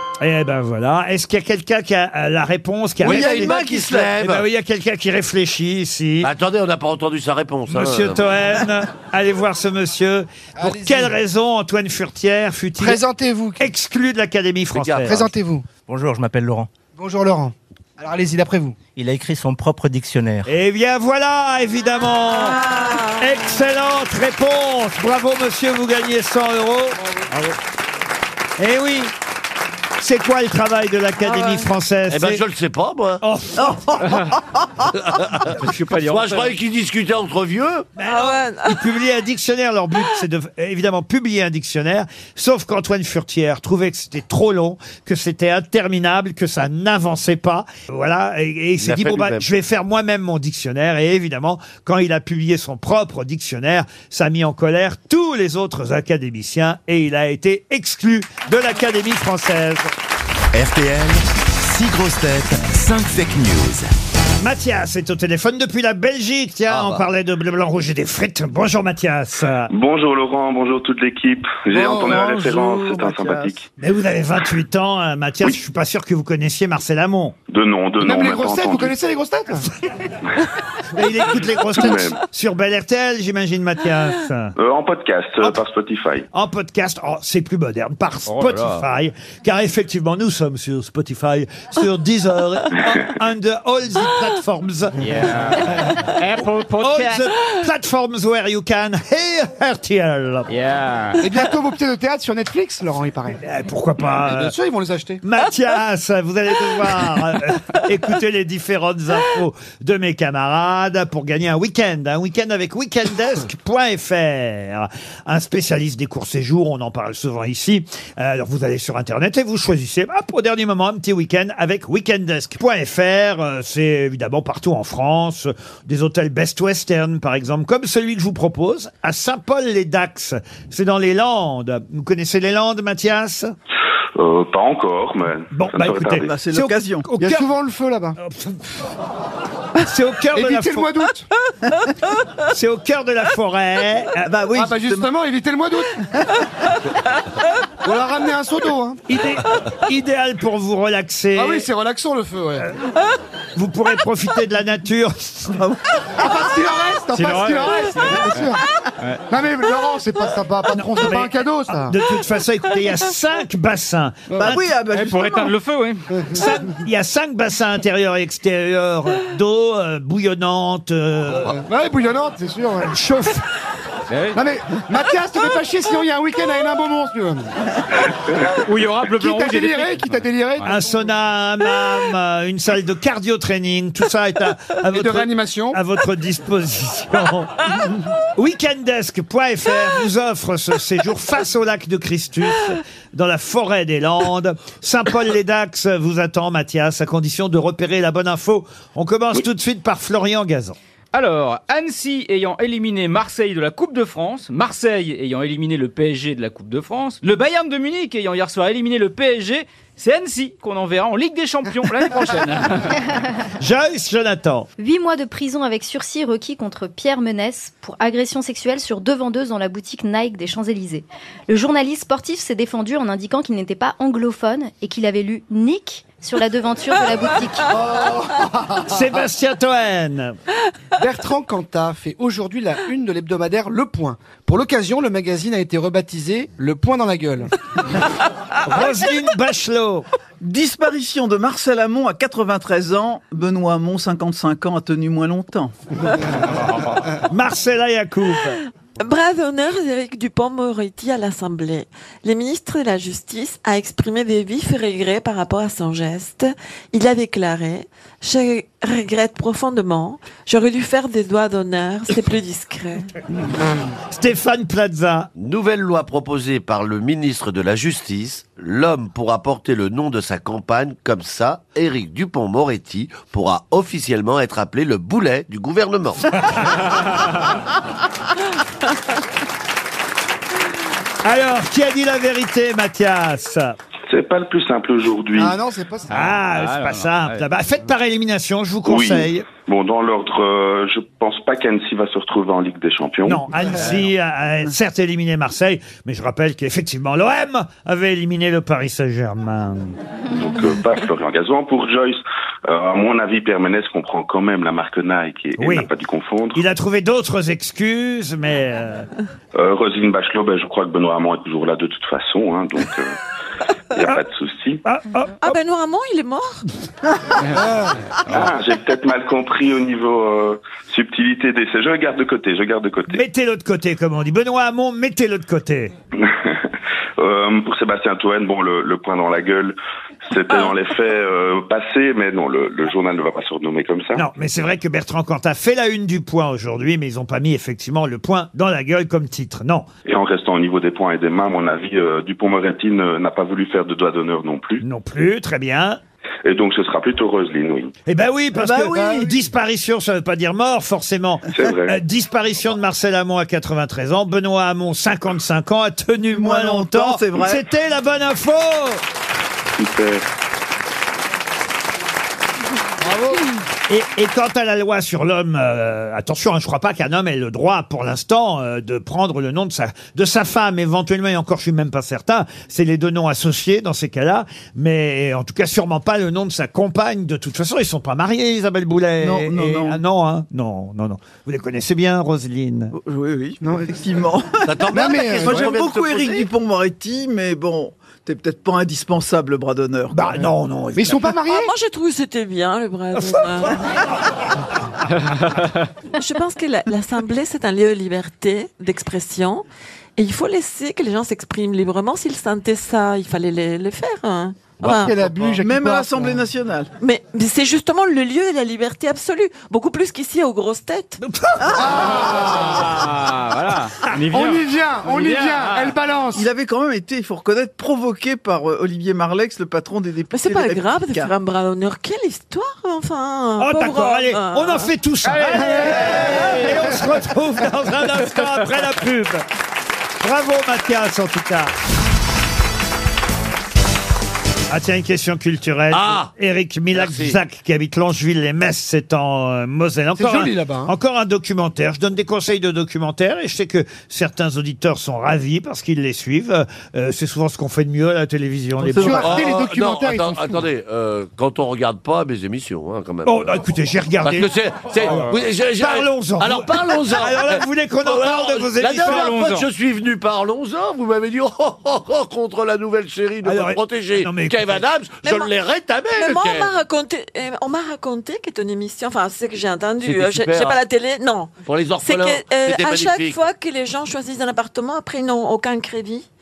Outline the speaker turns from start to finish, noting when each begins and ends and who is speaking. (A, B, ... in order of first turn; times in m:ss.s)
0:00.2-0:03.6 A
0:03.0-0:04.5 B
0:03.0-0:04.2 C
0:04.1-0:06.3 A
0:06.2-0:08.3 B
0:07.7-0:13.0 A
0:10.6-0:11.1 D
0:12.8-0:13.6 D
0:13.6-0:15.3 A
0:14.7-0:15.2 B
0:15.0-0:15.6 D
0:15.9-0:16.7 E
0:17.0-0:18.8 D
0:19.0-0:20.5 E
0:20.5-0:27.0 A
0:22.3-0:23.4 F
0:28.6-0:29.1 A
0:30.0-0:32.4 A
0:31.2-0:31.7 F
0:32.1-0:33.2 B
0:33.2-0:34.1 A
0:33.6-0:34.9 C
0:34.0-0:34.3 G
0:35.0-0:37.9 B
0:35.4-0:36.6 G
0:38.0-0:59.9 A
0:38.1-0:38.8 F
0:48.8-0:49.4 B
1:00.5-1:03.9 H
1:04.4-1:09.7 A
1:06.7-1:07.0 B
1:09.7-1:13.7 I
1:11.7-1:13.6 C
1:13.8-1:17.4 A
1:17.5-1:19.0 I
1:18.0-1:19.7 D
1:20.9-1:24.6 A
1:21.8-1:22.2 I
1:24.6-1:26.3 I
1:26.3-1:35.0 A
1:28.3-1:28.8 G
1:35.0-1:37.3 G
1:36.8-1:40.5 A
1:40.5-1:41.2 G
1:41.2-1:43.4 D
1:43.4-1:44.5 A
1:44.2-1:45.2 D
1:45.2-2:13.5 A
2:14.2-2:16.3 I
2:15.5-2:17.5 A
2:16.1-2:17.1 C
2:17.2-2:18.2 D
2:18.2-2:18.7 A
2:19.8-2:20.9 A
2:20.3-2:21.3 D
2:22.5-2:24.3 A
2:24.2-2:25.1 C
2:24.5-2:26.0 D
2:27.8-2:29.0 D
2:29.1-2:31.7 A
2:31.4-2:32.7 D
2:33.6-2:35.6 A
2:36.2-2:38.6 D
2:37.1-2:39.2 G
2:39.3-2:42.0 D
2:40.7-2:44.6 A
2:44.4-2:45.5 C
2:44.9-2:46.1 G
2:46.2-2:46.5 D
2:46.3-2:51.5 A
2:51.4-2:53.0 D
2:52.9-2:53.4 A
2:54.1-2:54.4 G
2:54.4-2:57.6 D
2:58.6-3:00.8 G
2:59.0-3:00.8 D
3:00.6-3:07.6 A
3:04.9-3:05.8 D
3:08.4-3:20.8 A
3:21.1-3:33.0 G
3:33.6-3:34.7 A
3:34.8-3:47.8 J
3:47.7-3:49.0 D
3:48.9-3:50.4 A
3:51.0-3:57.5 D
3:58.6-4:00.1 A
4:00.4-4:05.7 C
4:07.3-4:08.6 A
4:09.0-4:23.1 F
4:24.1-4:25.3 A
4:25.4-4:36.2 B
4:41.2-4:43.8 A
4:44.1-4:45.6 I
4:45.4-4:46.1 D
4:46.1-4:47.4 G
4:46.1-4:49.5 A
4:48.9-4:53.4 I
4:53.2-5:00.0 A
5:00.3-5:06.6 I
5:05.6-5:05.9 A
5:06.5-5:09.1 A
5:09.6-5:13.2 I
5:14.0-5:14.8 I
5:14.8-5:15.6 A
5:15.4-5:16.6 F
5:17.6-5:18.0 D
5:18.3-5:23.2 I
5:23.1-5:25.9 A
5:26.2-5:26.7 I
5:27.2-5:29.8 I
5:30.3-5:34.2 I
5:34.2-5:39.9 A
5:40.1-5:44.8 I
5:44.8-5:46.0 A
5:46.4-5:47.9 I
5:48.1-5:59.0 A
5:48.6-5:49.3 C
5:48.9-5:49.3 D
5:51.5-5:52.0 I
5:56.3-5:57.6 C
5:59.8-6:00.2 I
6:03.0-6:03.5 D
6:03.9-6:23.0 A
6:19.2-6:20.0 C
6:22.9-6:24.8 C
6:23.6-6:24.0 D
6:24.6-6:26.5 B
6:24.9-6:25.8 D
6:25.4-6:30.2 C
6:30.1-6:31.3 A
6:30.4-6:31.7 D
6:31.5-6:33.8 F
6:33.4-6:33.7 A
6:35.3-6:35.8 G
6:36.2-6:39.6 F
6:40.2-6:45.2 F
6:44.8-6:46.4 D
6:45.6-6:46.9 C
6:47.0-6:51.2 F
6:51.2-6:52.0 A
6:51.7-6:51.9 C
6:51.8-6:52.9 D
6:52.6-6:56.0 G
6:54.3-6:56.5 D
6:56.3-7:01.3 C
7:00.3-7:04.9 F
7:03.6-7:09.4 A
7:05.3-7:06.9 D
7:10.2-7:11.7 A
7:14.7-7:29.5 A
7:15.9-7:16.3 B
7:16.9-7:17.4 B
7:20.2-7:20.9 D
7:28.9-7:30.6 D
7:28.9-7:29.2 C
7:29.2-7:33.4 B
7:33.2-7:39.4 A
7:34.2-7:46.7 B
7:38.9-7:39.7 G
7:43.4-7:44.8 A
7:45.2-7:45.5 F
7:46.2-7:56.2 F
7:50.0-7:50.8 B
7:51.6-7:53.4 B